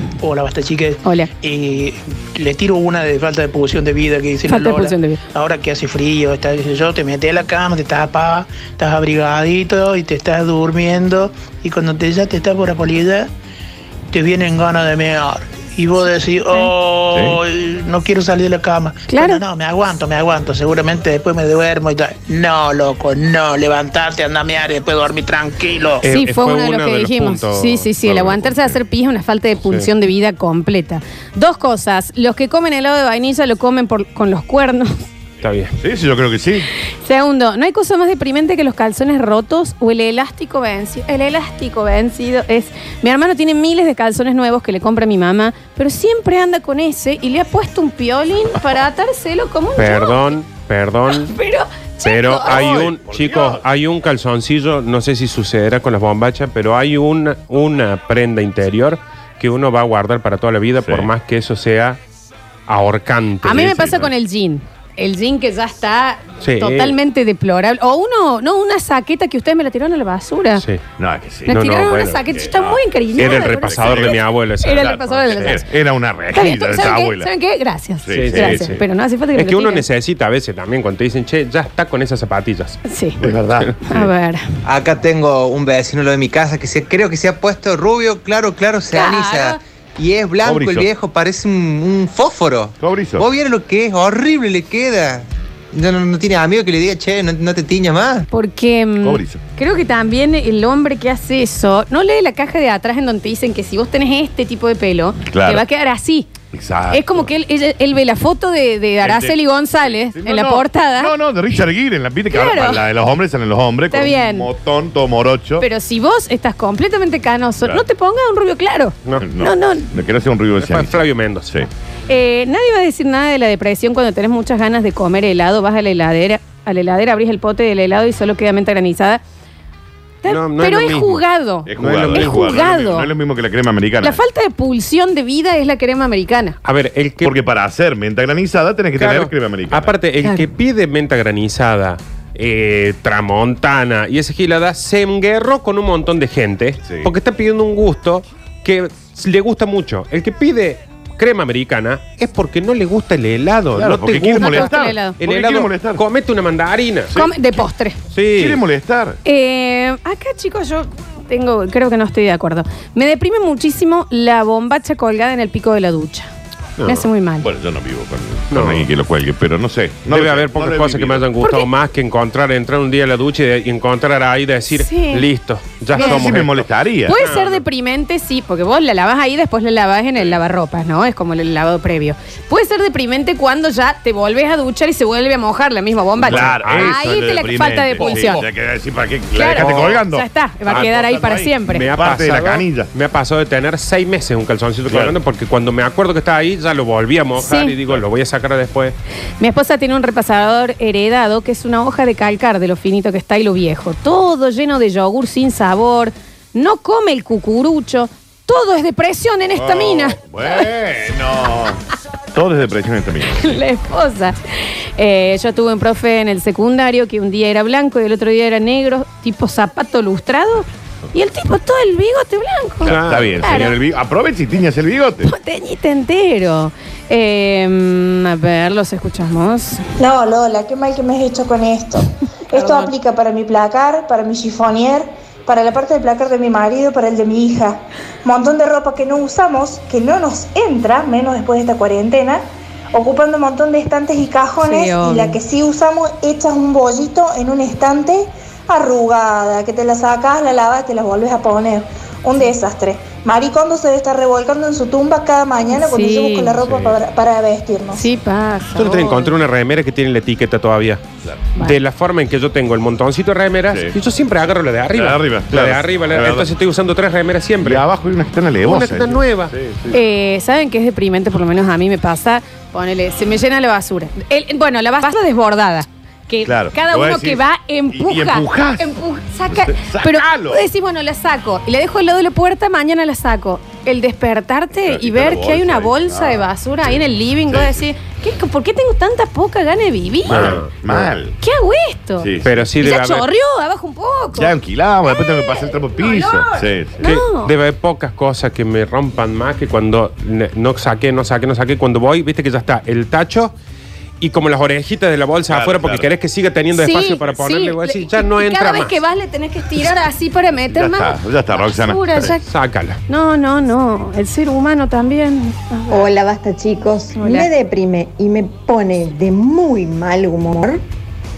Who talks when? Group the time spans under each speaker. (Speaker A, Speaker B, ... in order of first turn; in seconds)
Speaker A: 0.2-13.3, 14.1-26.0
Speaker B: 1.0-1.3, 4.4-5.2, 19.1-19.4, 26.0-35.1, 36.9-50.3, 51.1-52.9, 63.4-70.6, 71.5-75.7, 76.3-79.8, 82.9-83.2, 83.8-84.4, 88.9-89.6, 98.3-106.3, 106.9-111.2, 112.3-112.8, 113.9-114.5, 115.6-119.9, 122.1-129.2, 130.2-133.1, 134.0-136.6, 140.2-140.5, 154.2-155.2, 157.1-158.0, 159.2-166.3, 166.8-167.5, 171.4-171.7, 174.7-175.2, 175.9-176.4, 177.1-188.4, 189.3-191.9, 197.4-197.7, 199.4-210.7, 213.3-223.7, 225.2-229.8, 232.5-232.9, 244.6-245.4, 255.7-256.6, 257.9-259.4, 269.9-290.6, 291.4-292.3, 292.8-294.5, 295.1-297.5, 306.7-312.4, 313.1-316.1, 317.1-317.5
Speaker C: 17.1-17.4, 28.0-28.8, 35.8-36.7, 52.5-53.6, 60.8-61.1, 63.5-64.1, 71.0-71.6, 72.3-77.3, 78.0-78.8, 83.2-84.1, 90.4-90.9, 92.8-93.3, 99.0-99.4, 105.2-105.7, 106.5-107.3, 109.0-109.3, 109.9-115.7, 119.2-121.7, 131.7-134.2, 137.2-140.0, 146.8-147.1, 153.7-156.0, 158.3-159.2, 167.4-171.3, 175.9-177.2, 186.2-192.9, 194.9-195.2, 209.6-211.8, 212.3-213.6, 222.8-225.3, 263.7-264.0, 264.9-266.5, 267.6-270.0, 276.4-280.7, 284.7-286.5, 287.5-287.8, 290.3-291.4, 292.2-292.7, 294.3-297.0, 305.5-306.1, 310.7-312.2
Speaker D: 26.0-27.9, 35.4-35.7, 49.8-51.3, 52.0-62.0, 62.7-64.1, 66.4-67.0, 71.5-72.2, 73.2-75.6, 78.1-78.8, 79.3-82.8, 83.6-83.8, 120.6-121.5, 130.2-131.2, 131.8-132.5, 136.6-137.3, 138.9-157.2, 158.1-158.6, 166.8-167.1, 168.5-168.9, 170.1-177.7, 186.2-188.4, 189.4-190.0, 190.7-191.0, 191.7-198.9, 222.8-223.6, 256.6-257.0, 258.8-261.0, 261.6-267.8, 268.6-269.5, 290.3-291.1, 292.4-293.2, 297.0-303.5, 304.2-309.0, 312.1-313.0
Speaker E: 84.6-98.2
Speaker F: 230.0-242.4, 242.9-258.1
Speaker G: 315.9-320.8